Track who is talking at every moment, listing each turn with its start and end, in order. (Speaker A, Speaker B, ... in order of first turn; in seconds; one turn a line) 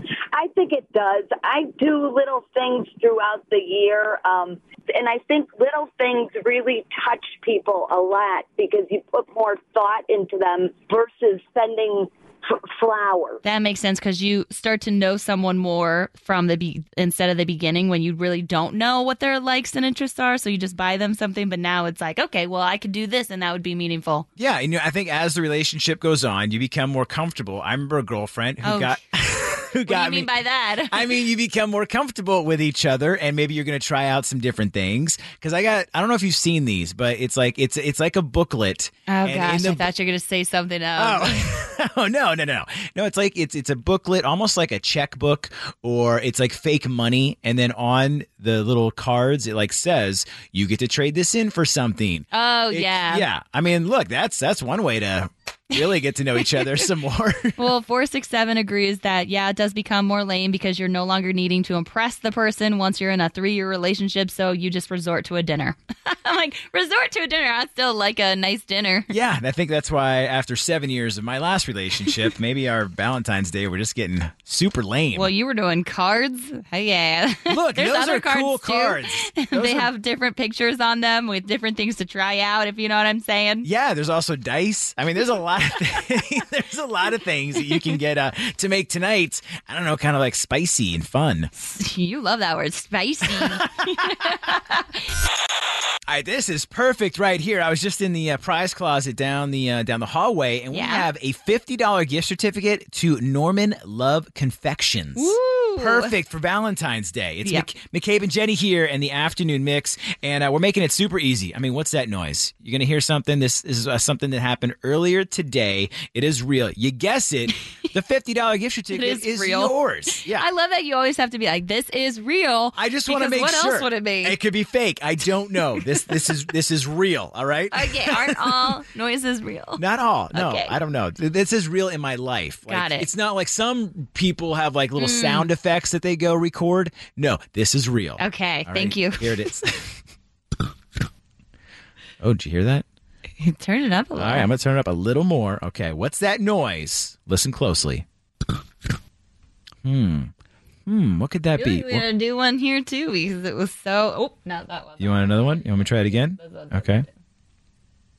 Speaker A: 0.3-13.4
Speaker B: 13.4-24.2
Speaker C: 24.4-39.9
Speaker B: 28.6-29.0
Speaker B: 29.9-31.2
Speaker B: 39.1-41.5
Speaker C: 41.0-57.6
Speaker B: 52.3-53.2
Speaker B: 57.6-69.1
Speaker C: 69.1-75.3
Speaker B: 75.1-83.7
Speaker C: 77.5-79.9
Speaker C: 83.6-91.5
Speaker B: 91.5-94.8
Speaker C: 93.3-93.6
Speaker C: 96.1-120.4
Speaker B: 100.7-101.1
Speaker B: 105.2-106.1
Speaker B: 118.9-124.4
Speaker C: 122.8-128.7
Speaker B: 127.7-129.8
Speaker C: 129.8-139.9
Speaker B: 130.3-130.8
Speaker B: 132.7-133.1
Speaker B: 135.0-135.5
Speaker B: 138.2-139.4
Speaker C: 142.2-142.8
Speaker B: 143.4-144.5
Speaker C: 144.2-148.0
Speaker C: 149.8-150.3
Speaker C: 150.9-152.0
Speaker B: 151.6-157.1
Speaker C: 155.0-157.1